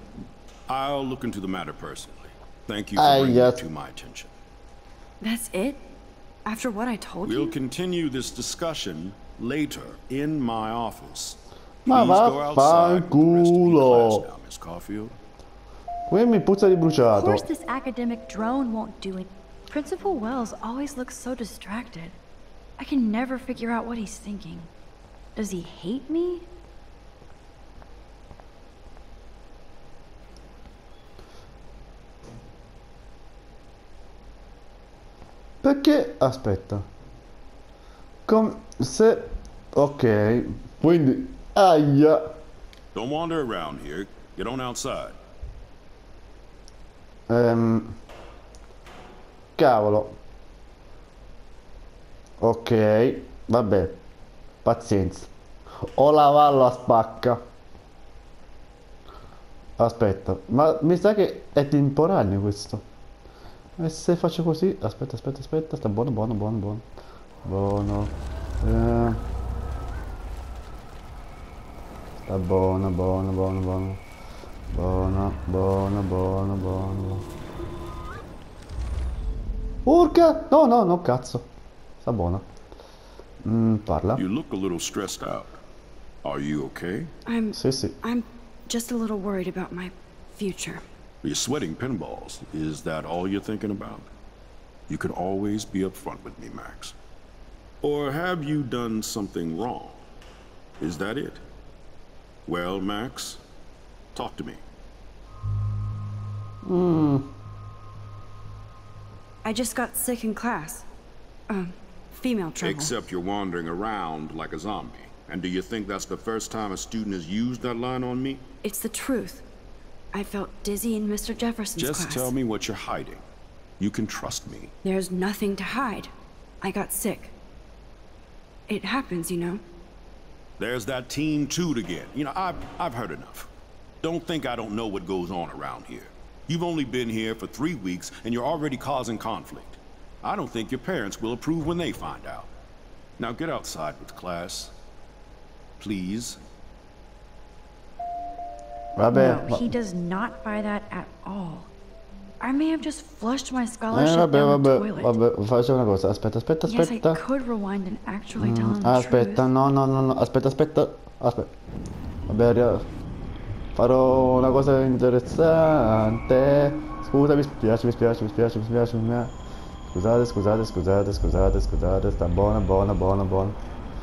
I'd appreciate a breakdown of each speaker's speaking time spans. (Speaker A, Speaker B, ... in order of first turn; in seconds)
Speaker A: 0.7-4.3, 7.2-15.2, 43.0-45.2, 84.1-85.6, 86.2-87.1, 91.2-94.1, 94.9-96.9, 97.8-100.0, 100.8-101.4, 102.5-103.4, 104.1-104.6, 112.6-118.4, 121.8-123.2, 123.8-124.7, 130.6-133.5, 134.0-142.5, 143.2-144.7, 145.8-146.4
Speaker B: 3.0-3.6, 11.9-14.2, 16.1-17.5, 35.6-36.9, 38.3-42.3, 47.3-48.0, 49.6-50.2, 52.4-54.0, 54.6-57.4, 59.8-62.8, 63.8-66.8, 67.4-69.2, 72.3-74.0, 74.7-77.3, 79.8-81.5, 82.0-82.5, 83.4-84.2, 87.5-88.0, 106.6-107.3, 149.0-149.7, 153.9-157.2, 158.4-161.5, 162.3-162.9, 163.8-169.3, 169.9-173.6
Speaker C: 5.2-5.8, 6.5-7.6, 17.1-22.2, 22.8-24.7, 25.4-26.5, 87.3-90.8, 109.5-110.9, 111.5-112.9, 118.6-119.5, 120.1-122.3, 124.8-127.3, 128.7-129.6, 149.1-151.7, 152.4-155.1, 156.7-159.5